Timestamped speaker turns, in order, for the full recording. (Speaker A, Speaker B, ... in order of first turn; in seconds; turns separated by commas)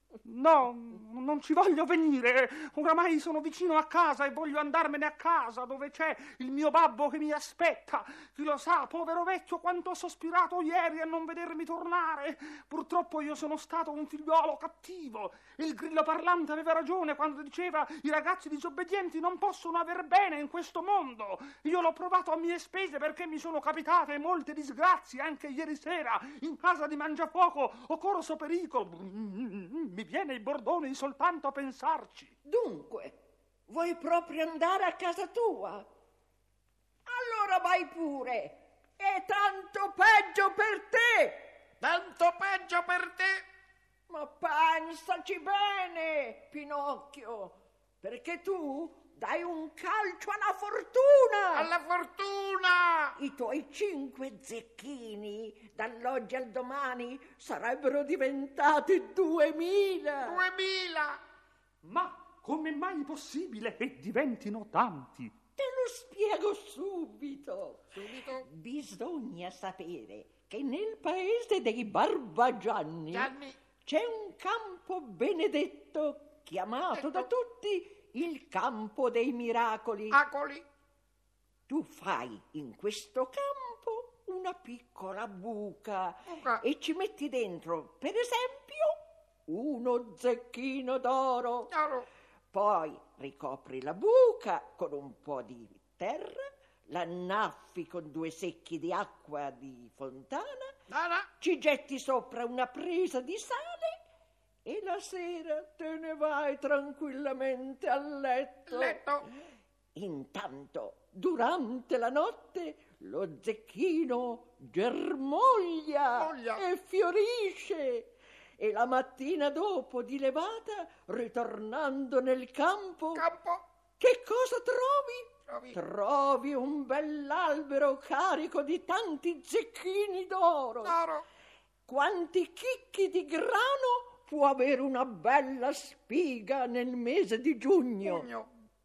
Speaker A: 0.2-32.3, Speaker B: 32.5-33.2, Speaker B: 33.7-35.9, Speaker B: 37.1-41.6, Speaker C: 41.8-43.4, Speaker B: 44.1-51.7, Speaker C: 51.6-53.1, Speaker B: 53.2-60.4, Speaker C: 60.3-61.2, Speaker A: 61.8-65.3, Speaker B: 65.6-67.8, Speaker C: 68.0-68.4, Speaker B: 68.3-80.2, Speaker C: 73.1-73.5, Speaker C: 80.2-80.6, Speaker B: 81.7-88.9, Speaker B: 89.5-91.7, Speaker B: 92.5-100.8, Speaker C: 100.9-101.2, Speaker B: 101.4-104.0, Speaker B: 104.7-109.0, Speaker C: 108.7-109.2, Speaker B: 110.0-123.3, Speaker C: 116.2-116.6, Speaker C: 123.2-123.6, Speaker B: 124.0-131.0, Speaker C: 125.5-125.8, Speaker C: 130.9-131.2, Speaker B: 131.9-138.3, Speaker C: 138.2-138.5